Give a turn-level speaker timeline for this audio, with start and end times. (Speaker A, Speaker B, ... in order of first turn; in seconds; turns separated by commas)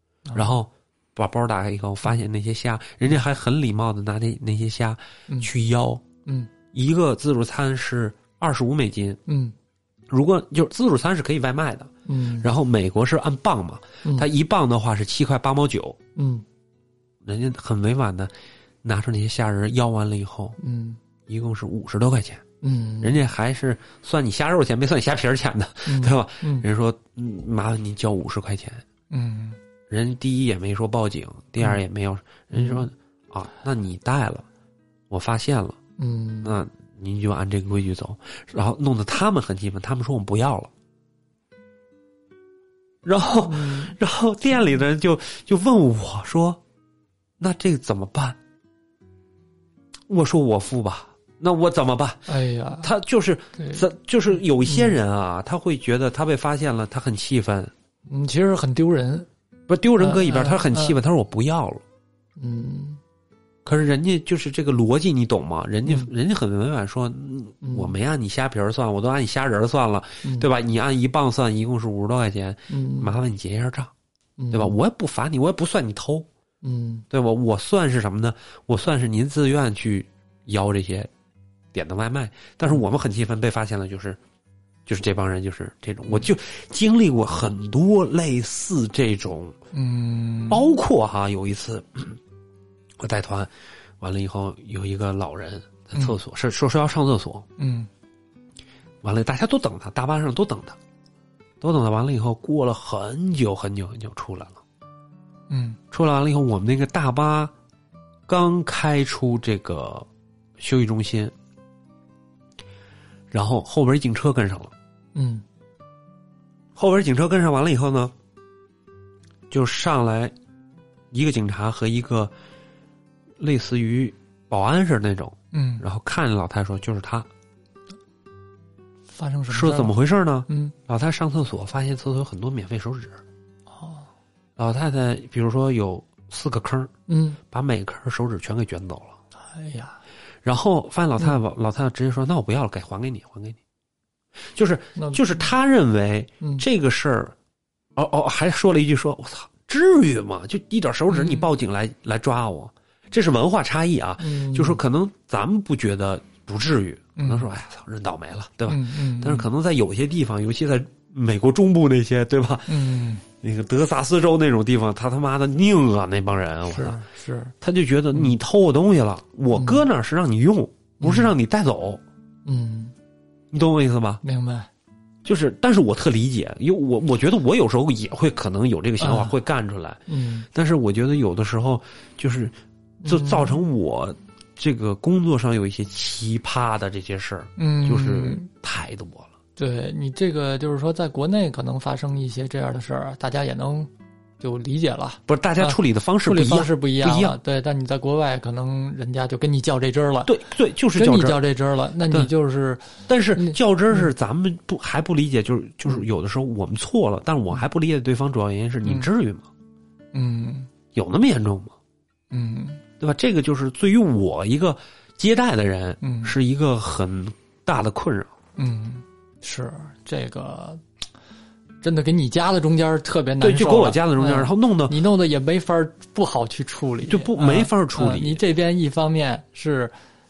Speaker A: 0.2-0.6, Speaker B: 0.3-6.0, Speaker A: 6.2-6.5, Speaker B: 6.7-9.2, Speaker A: 9.3-9.5, Speaker B: 10.1-16.0, Speaker A: 12.1-12.5, Speaker A: 16.1-16.4, Speaker B: 17.2-18.3, Speaker B: 18.8-20.6, Speaker A: 20.6-21.0, Speaker B: 21.3-22.4, Speaker A: 22.6-23.2, Speaker B: 23.0-28.8, Speaker A: 25.9-26.6, Speaker A: 29.1-29.6, Speaker B: 29.9-34.5, Speaker A: 32.5-32.8, Speaker B: 35.1-35.8, Speaker A: 36.0-36.6, Speaker B: 36.4-40.7, Speaker B: 43.0-46.6, Speaker A: 43.4-44.0, Speaker B: 47.4-48.4, Speaker B: 50.1-57.7, Speaker A: 52.3-52.9, Speaker A: 53.6-53.8, Speaker A: 54.6-55.0, Speaker A: 58.1-59.3, Speaker B: 59.7-61.8, Speaker A: 60.0-61.0, Speaker A: 62.4-63.0, Speaker B: 63.6-73.9, Speaker A: 67.6-67.9, Speaker A: 72.7-73.1, Speaker A: 74.4-74.8, Speaker B: 74.5-76.3, Speaker A: 76.6-77.0, Speaker B: 77.1-81.1, Speaker B: 81.7-84.2, Speaker B: 84.8-89.6, Speaker A: 89.7-90.7, Speaker B: 90.5-92.2, Speaker B: 93.0-97.5, Speaker A: 97.6-97.9, Speaker B: 99.0-100.8, Speaker B: 101.6-104.6, Speaker A: 105.5-105.8, Speaker B: 105.9-107.5, Speaker B: 108.3-110.1, Speaker B: 110.6-111.3, Speaker B: 113.3-114.7, Speaker A: 115.1-115.4, Speaker B: 116.8-118.1, Speaker B: 119.5-120.3, Speaker B: 121.1-122.3, Speaker B: 123.4-127.3, Speaker A: 125.5-125.8, Speaker A: 129.1-129.9, Speaker B: 129.5-133.2, Speaker A: 130.5-130.7, Speaker A: 133.7-134.1, Speaker B: 134.6-136.9, Speaker A: 137.1-137.4, Speaker B: 137.5-139.2, Speaker A: 139.4-140.0, Speaker B: 140.4-143.6, Speaker B: 144.6-147.3, Speaker A: 144.9-145.5, Speaker B: 147.9-167.0, Speaker A: 151.1-151.5, Speaker A: 154.2-154.8, Speaker A: 157.2-157.5, Speaker A: 158.7-159.5, Speaker A: 162.7-163.2, Speaker A: 166.7-167.5, Speaker B: 167.6-172.0, Speaker A: 169.5-169.8, Speaker A: 171.0-171.3, Speaker A: 172.4-172.9, Speaker B: 173.5-174.2, Speaker A: 174.2-174.7, Speaker B: 175.2-182.5, Speaker A: 179.0-179.4, Speaker A: 180.1-180.5, Speaker A: 183.0-183.6, Speaker B: 183.0-189.3, Speaker A: 187.6-188.5, Speaker A: 189.6-200.4, Speaker B: 195.3-197.4, Speaker B: 200.2-201.4, Speaker A: 200.9-204.1, Speaker B: 203.1-209.5, Speaker A: 210.1-210.7, Speaker B: 210.9-211.7, Speaker A: 212.3-212.8, Speaker B: 213.0-218.3, Speaker A: 216.0-216.3, Speaker A: 218.6-220.8, Speaker A: 221.8-229.9, Speaker B: 223.4-224.9, Speaker B: 227.0-228.4